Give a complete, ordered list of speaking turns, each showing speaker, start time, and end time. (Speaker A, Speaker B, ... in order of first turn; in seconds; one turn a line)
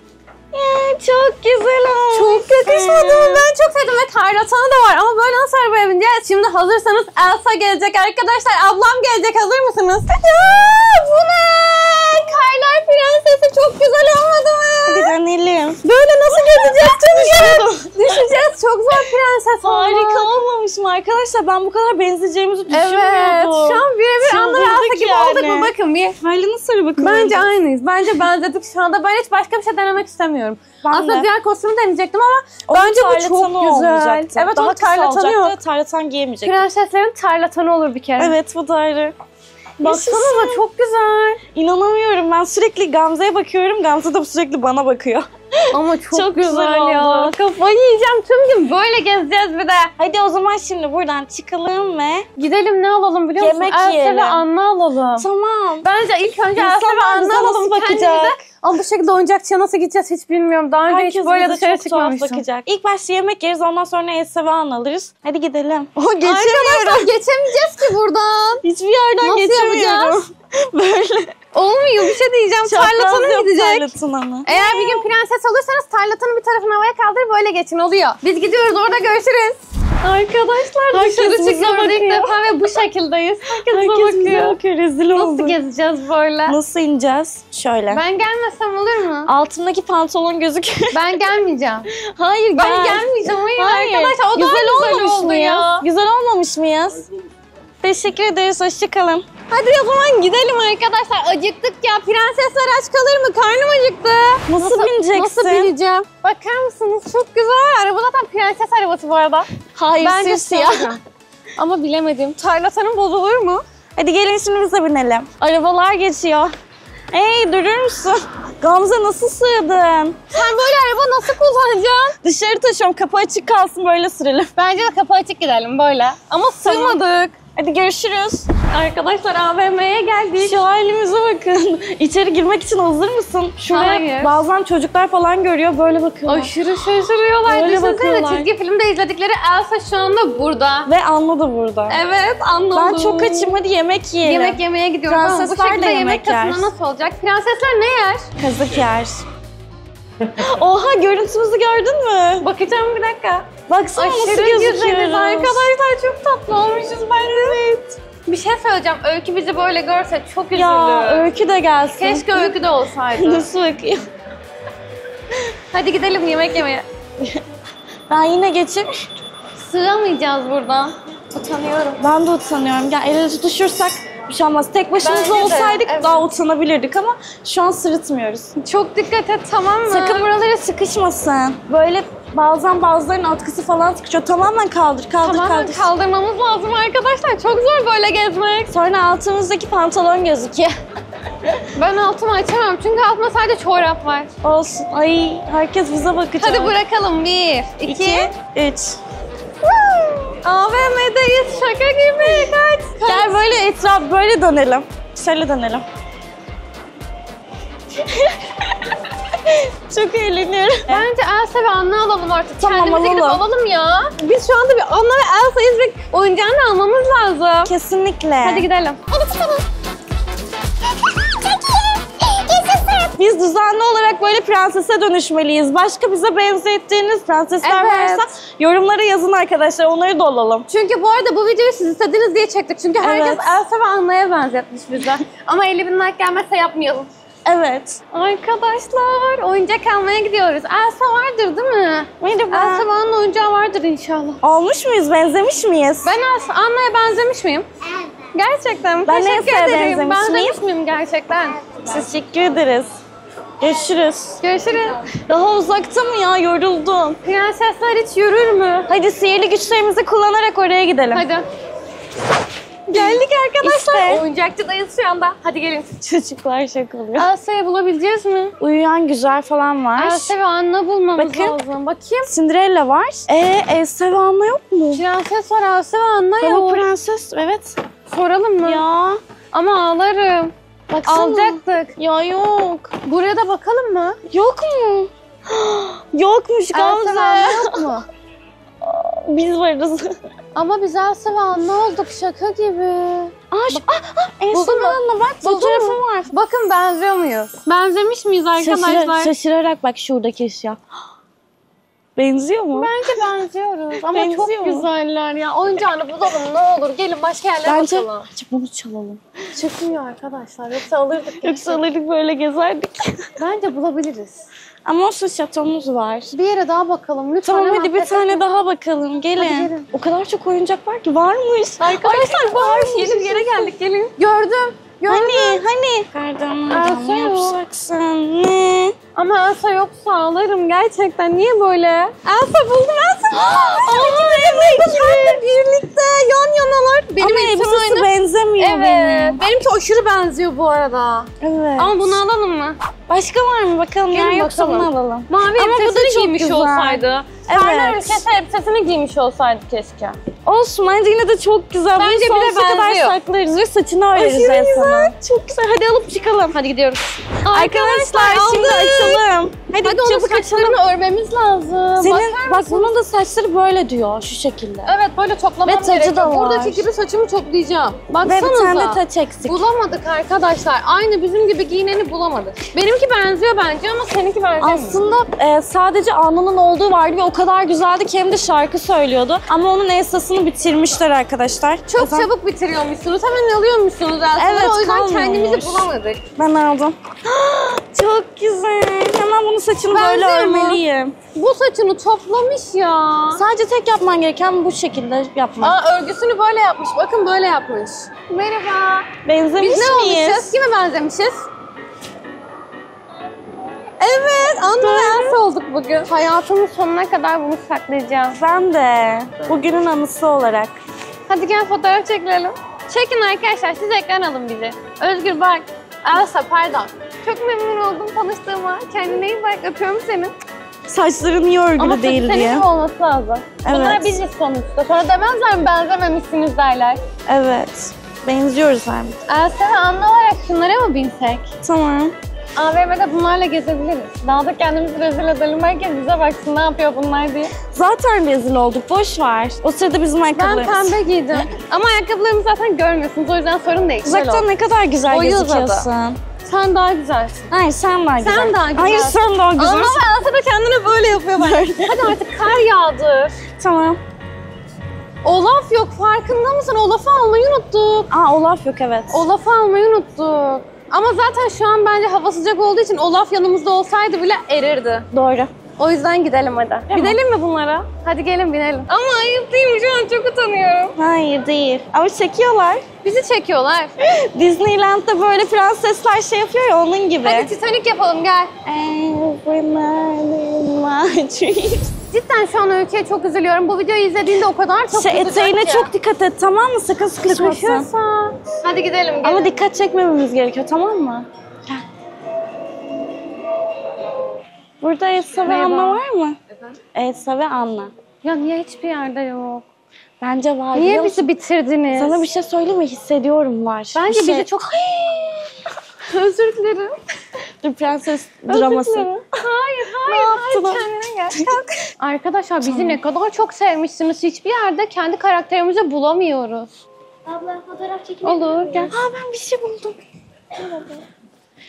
Speaker A: 0.5-3.5
Speaker B: 2.1-15.1
Speaker A: 14.9-17.9
Speaker B: 15.8-20.3
Speaker A: 19.6-27.5
Speaker B: 22.7-26.2
Speaker B: 27.0-35.5
Speaker A: 30.8-31.3
Speaker A: 32.7-36.6
Speaker B: 36.4-38.4
Speaker A: 38.2-39.1
Speaker A: 39.8-40.6
Speaker B: 39.8-41.4
Speaker A: 41.5-47.3
Speaker B: 45.7-49.9
Speaker A: 50.0-52.3
Speaker B: 52.4-55.2
Speaker A: 53.4-54.4
Speaker A: 55.2-55.9
Speaker B: 55.8-62.4
Speaker A: 56.6-58.4
Speaker A: 60.9-67.1
Speaker B: 66.2-68.6
Speaker A: 68.6-71.3
Speaker B: 69.2-70.2
Speaker B: 71.5-73.9
Speaker A: 72.7-75.1
Speaker B: 74.5-84.6
Speaker A: 80.9-82.4
Speaker A: 83.7-85.6
Speaker B: 85.1-86.6
Speaker A: 86.5-88.0
Speaker B: 87.9-89.3
Speaker A: 89.3-91.2
Speaker B: 90.9-91.9
Speaker A: 91.9-97.0
Speaker B: 92.5-95.9
Speaker A: 97.8-99.3
Speaker B: 99.5-109.5
Speaker A: 104.5-105.7
Speaker A: 109.8-111.0
Speaker B: 110.0-111.0
Speaker B: 111.6-113.6
Speaker A: 114.0-116.5
Speaker A: 117.1-120.4
Speaker B: 120.3-122.2
Speaker A: 122.2-124.5
Speaker B: 124.6-127.4
Speaker A: 126.6-127.0
Speaker A: 127.5-128.5
Speaker B: 128.7-130.6
Speaker A: 130.4-136.5
Speaker B: 133.7-134.4
Speaker B: 136.3-140.9
Speaker A: 137.5-138.5
Speaker A: 140.9-142.0
Speaker B: 141.9-143.5
Speaker A: 142.7-146.7
Speaker B: 144.2-148.3
Speaker A: 148.4-149.2
Speaker A: 150.2-152.5
Speaker B: 152.4-157.6
Speaker A: 153.7-155.7
Speaker A: 157.3-157.9
Speaker B: 158.1-161.3
Speaker A: 160.5-162.6
Speaker B: 162.0-163.5
Speaker A: 163.2-164.1
Speaker B: 165.7-166.9
Speaker A: 168.1-169.1
Speaker B: 169.6-172.0
Speaker A: 172.0-178.5
Speaker B: 175.0-176.3
Speaker B: 178.6-180.3
Speaker A: 179.9-185.9
Speaker B: 185.2-188.7
Speaker A: 188.7-190.7
Speaker B: 191.8-194.3
Speaker A: 194.4-196.8
Speaker B: 196.4-198.3
Speaker A: 197.8-199.0
Speaker A: 199.6-200.3
Speaker B: 200.4-203.4
Speaker A: 203.0-205.8
Speaker A: 208.0-211.1
Speaker B: 210.9-217.7
Speaker A: 212.6-213.4
Speaker A: 217.7-218.7
Speaker B: 218.4-219.6
Speaker B: 222.3-223.1
Speaker A: 223.2-230.7
Speaker B: 227.6-228.3
Speaker B: 230.7-237.1
Speaker A: 233.0-233.6
Speaker A: 237.5-238.0
Speaker B: 238.1-244.4
Speaker A: 242.2-242.9
Speaker A: 244.4-246.1
Speaker B: 246.0-247.7
Speaker B: 248.3-251.6
Speaker A: 249.1-250.6
Speaker A: 251.8-253.0
Speaker A: 253.6-254.4
Speaker B: 254.4-255.1
Speaker A: 255.3-257.2
Speaker B: 257.2-258.9
Speaker A: 258.9-261.2
Speaker B: 261.1-261.5
Speaker B: 262.9-265.9
Speaker A: 262.9-264.2
Speaker A: 266.0-267.3
Speaker B: 267.2-268.6
Speaker A: 268.6-270.3
Speaker B: 270.0-272.3
Speaker A: 271.2-271.6
Speaker A: 272.3-275.0
Speaker B: 274.9-276.9
Speaker A: 276.4-277.8
Speaker B: 278.1-278.8
Speaker A: 278.6-279.2
Speaker B: 279.5-281.9
Speaker A: 280.9-282.9
Speaker B: 283.1-284.2
Speaker A: 284.3-287.9
Speaker B: 286.7-288.1
Speaker A: 288.8-290.2
Speaker B: 290.6-293.8
Speaker A: 293.5-296.3
Speaker B: 294.5-299.3
Speaker A: 298.6-300.8
Speaker A: 302.2-302.9
Speaker B: 302.7-308.3
Speaker A: 304.0-304.9
Speaker A: 307.6-309.2
Speaker B: 309.6-311.8
Speaker A: 311.4-313.3
Speaker B: 313.4-314.5
Speaker A: 314.9-316.3
Speaker B: 316.3-318.4
Speaker A: 317.4-323.7
Speaker B: 319.4-319.9
Speaker B: 321.8-325.6
Speaker A: 325.1-329.0
Speaker B: 326.7-327.5
Speaker B: 329.2-342.8
Speaker A: 333.3-335.4
Speaker A: 337.2-339.4
Speaker A: 341.4-342.2
Speaker A: 343.1-348.2
Speaker B: 344.1-350.2
Speaker A: 350.4-356.6
Speaker B: 352.0-353.2
Speaker B: 354.1-355.1
Speaker B: 356.5-359.2
Speaker A: 357.5-360.8
Speaker B: 359.8-362.9
Speaker A: 362.0-364.9
Speaker B: 364.9-375.0
Speaker A: 365.6-366.9
Speaker A: 368.2-369.6
Speaker A: 374.6-382.3
Speaker B: 381.9-386.2
Speaker A: 384.4-391.1
Speaker B: 389.9-390.8
Speaker B: 391.3-393.4
Speaker A: 393.3-395.8
Speaker B: 395.6-399.1
Speaker A: 399.2-400.6
Speaker B: 399.6-401.5
Speaker B: 404.0-408.4
Speaker A: 404.8-405.4
Speaker A: 408.3-410.8
Speaker B: 411.3-420.3
Speaker A: 420.9-422.7
Speaker B: 421.8-427.0
Speaker A: 423.6-424.2
Speaker A: 427.3-429.2
Speaker B: 429.3-431.5
Speaker A: 431.6-432.1
Speaker B: 432.6-437.5
Speaker A: 437.7-441.0
Speaker B: 440.4-444.5
Speaker A: 444.0-446.2
Speaker B: 445.1-445.9
Speaker B: 446.4-447.4
Speaker A: 447.5-450.0
Speaker B: 448.2-453.4
Speaker A: 451.4-452.2
Speaker A: 453.6-454.0
Speaker B: 455.2-458.1
Speaker A: 458.1-459.2
Speaker B: 459.1-465.1
Speaker A: 465.1-465.5
Speaker B: 465.8-471.0
Speaker A: 466.9-467.2
Speaker A: 471.0-472.9
Speaker B: 473.0-473.9
Speaker A: 474.0-477.5
Speaker B: 477.2-478.5
Speaker A: 478.6-481.9
Speaker B: 482.1-485.9
Speaker A: 484.9-487.9
Speaker B: 487.3-489.6
Speaker A: 489.2-491.8
Speaker A: 494.8-496.4
Speaker B: 495.4-496.0
Speaker A: 496.9-497.9
Speaker B: 498.2-499.6
Speaker A: 500.2-501.3
Speaker B: 500.7-502.2
Speaker A: 501.9-505.5
Speaker B: 503.9-504.9
Speaker B: 506.1-507.0
Speaker A: 507.6-509.3
Speaker B: 508.5-516.7
Speaker A: 510.1-511.8
Speaker A: 512.6-513.0
Speaker A: 517.3-520.0
Speaker B: 518.2-519.0
Speaker A: 520.5-521.1